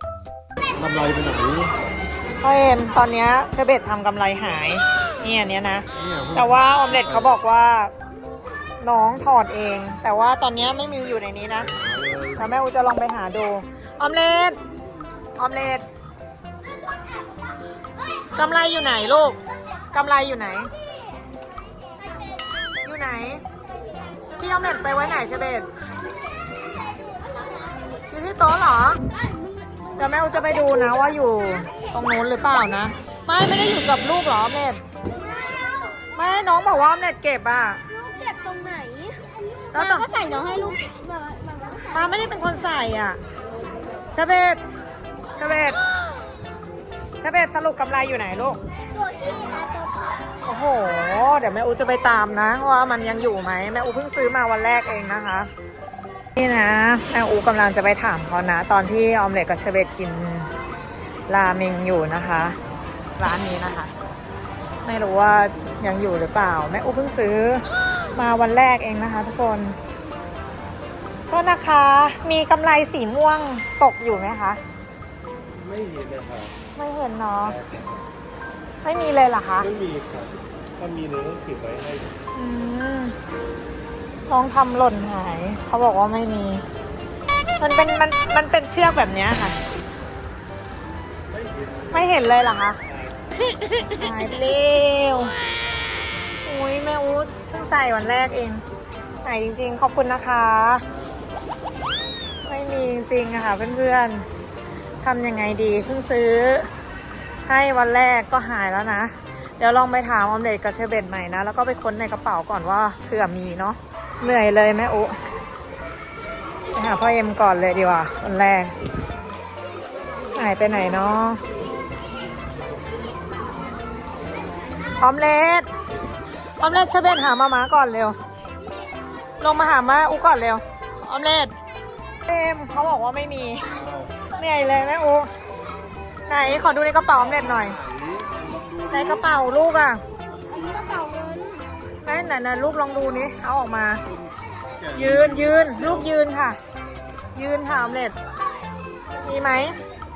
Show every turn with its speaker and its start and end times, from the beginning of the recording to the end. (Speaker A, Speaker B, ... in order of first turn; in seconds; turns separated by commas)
Speaker A: 0.8-1.8, Speaker B: 2.4-7.9, Speaker A: 6.0-7.3, Speaker B: 8.8-11.7, Speaker A: 11.8-12.4, Speaker B: 12.3-14.6, Speaker B: 15.4-15.8, Speaker B: 18.4-19.4, Speaker B: 19.9-20.7, Speaker B: 22.8-23.4, Speaker B: 24.4-25.7, Speaker C: 26.9-27.8, Speaker B: 28.1-29.0, Speaker C: 29.1-31.8, Speaker B: 30.0-34.8, Speaker C: 35.1-36.0, Speaker B: 36.1-37.8, Speaker C: 37.9-42.2, Speaker B: 39.7-40.1, Speaker B: 41.9-43.2, Speaker B: 44.1-44.6, Speaker B: 45.4-45.8, Speaker B: 47.2-48.6, Speaker C: 48.9-50.3, Speaker B: 50.5-55.5, Speaker B: 56.4-60.5, Speaker B: 61.3-62.6, Speaker B: 63.2-63.9, Speaker B: 64.8-69.8, Speaker B: 71.3-74.6, Speaker A: 75.6-76.5, Speaker B: 76.8-77.6, Speaker A: 77.5-77.9, Speaker B: 78.8-79.7, Speaker A: 79.6-82.2, Speaker B: 82.3-83.2, Speaker B: 84.3-86.7, Speaker B: 87.6-89.6, Speaker A: 91.3-93.2, Speaker B: 91.9-92.8, Speaker B: 93.9-95.3, Speaker B: 96.5-98.6, Speaker B: 99.2-100.8, Speaker B: 102.5-104.3, Speaker B: 105.0-106.7, Speaker B: 107.5-115.2, Speaker B: 116.7-118.7, Speaker B: 120.3-121.4, Speaker B: 125.0-125.7, Speaker B: 126.6-128.2, Speaker B: 129.4-131.5, Speaker B: 132.3-133.7, Speaker A: 133.8-134.2, Speaker B: 134.3-135.3, Speaker B: 136.3-137.8, Speaker A: 137.4-139.3, Speaker B: 138.9-140.0, Speaker C: 140.5-141.7, Speaker B: 142.1-144.1, Speaker A: 144.1-146.1, Speaker B: 144.9-146.6, Speaker B: 147.3-148.2, Speaker B: 149.2-149.8